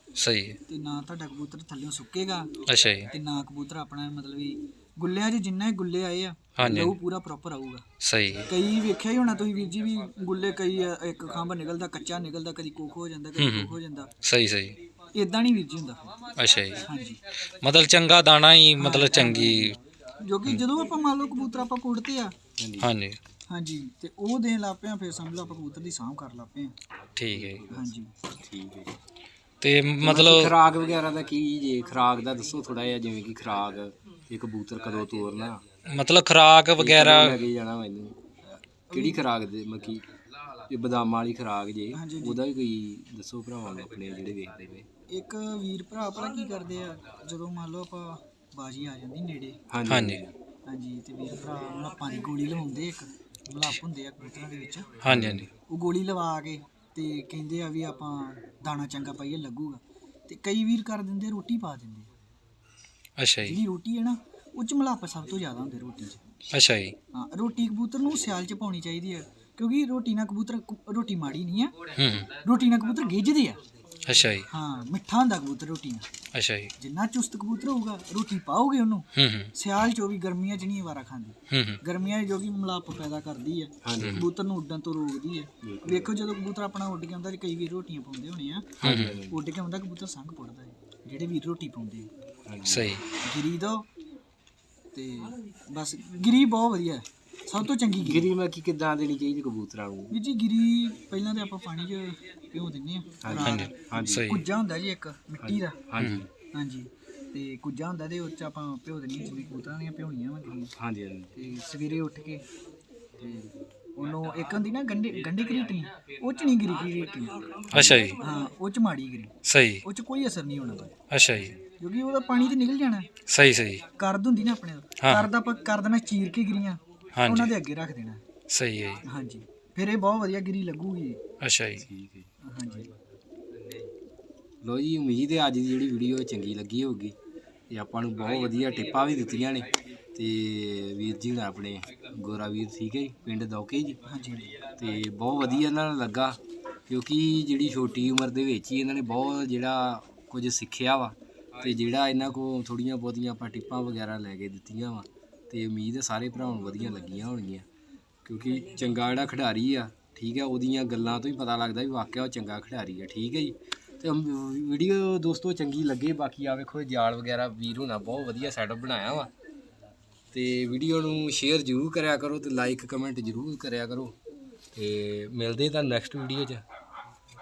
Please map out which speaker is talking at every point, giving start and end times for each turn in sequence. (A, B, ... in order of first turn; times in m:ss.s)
0:00.2-0:00.6 A
0:00.7-0:02.5 B
0:02.7-0:03.1 A
0:03.1-0:07.8 B
0:06.6-0:07.0 A
0:08.0-0:08.5 A
0:08.5-0:14.1 B
0:13.4-0:14.8 A
0:15.1-0:16.2 B
0:16.4-0:16.9 A
0:16.8-0:17.2 B
0:17.6-0:19.8 A
0:18.8-0:22.4 B
0:22.6-0:22.9 C
0:22.8-0:23.2 A
0:23.5-0:26.7 B
0:27.2-0:27.6 A
0:27.3-0:27.9 C
0:27.7-0:28.1 B
0:28.4-0:29.0 C
0:29.6-0:30.6 A
0:30.0-0:35.6 C
0:35.9-0:37.4 A
0:36.8-0:38.2 C
0:38.9-0:39.2 B
0:38.9-0:40.0 C
0:40.7-0:44.9 C
0:41.9-0:42.4 B
0:45.1-0:49.6 B
0:49.7-0:50.3 C
0:49.9-0:50.2 A
0:50.7-0:55.0 B
0:55.0-0:55.5 A
0:55.1-0:55.5 C
0:55.7-1:02.1 B
1:03.2-1:03.6 A
1:03.4-1:06.2 B
1:06.5-1:07.0 A
1:07.1-1:11.8 B
1:12.0-1:12.3 A
1:12.4-1:13.6 B
1:14.1-1:14.5 A
1:14.5-1:16.1 B
1:16.4-1:16.7 A
1:16.8-1:28.7 B
1:19.2-1:19.5 A
1:21.5-1:21.8 A
1:23.8-1:24.2 C
1:24.0-1:24.3 A
1:25.6-1:26.1 C
1:28.8-1:29.4 C
1:28.8-1:29.2 A
1:29.3-1:32.1 B
1:32.5-1:33.0 C
1:32.7-1:33.0 A
1:33.2-1:33.8 B
1:34.9-1:38.3 B
1:37.8-1:40.2 C
1:40.1-1:45.8 B
1:43.2-1:44.3 C
1:43.4-1:44.4 A
1:45.4-1:46.3 C
1:46.0-1:46.2 A
1:46.5-1:50.7 B
1:50.8-1:51.3 C
1:51.3-1:52.4 B
1:53.2-1:53.5 C
1:54.0-2:00.9 B
1:57.7-1:58.0 C
1:57.7-1:58.2 A
1:59.5-1:59.8 A
2:01.1-2:01.6 A
2:01.8-2:03.1 B
2:03.3-2:03.8 A
2:04.0-2:08.2 B
2:05.0-2:05.3 A
2:07.2-2:07.5 A
2:08.5-2:09.0 A
2:09.0-2:11.2 B
2:11.4-2:11.8 A
2:11.8-2:12.3 C
2:12.4-2:12.9 B
2:14.6-2:17.2 C
2:17.7-2:24.0 C
2:24.1-2:24.6 B
2:24.8-2:37.7 C
2:38.2-2:49.3 C
2:50.3-2:54.2 C
2:54.7-2:56.6 C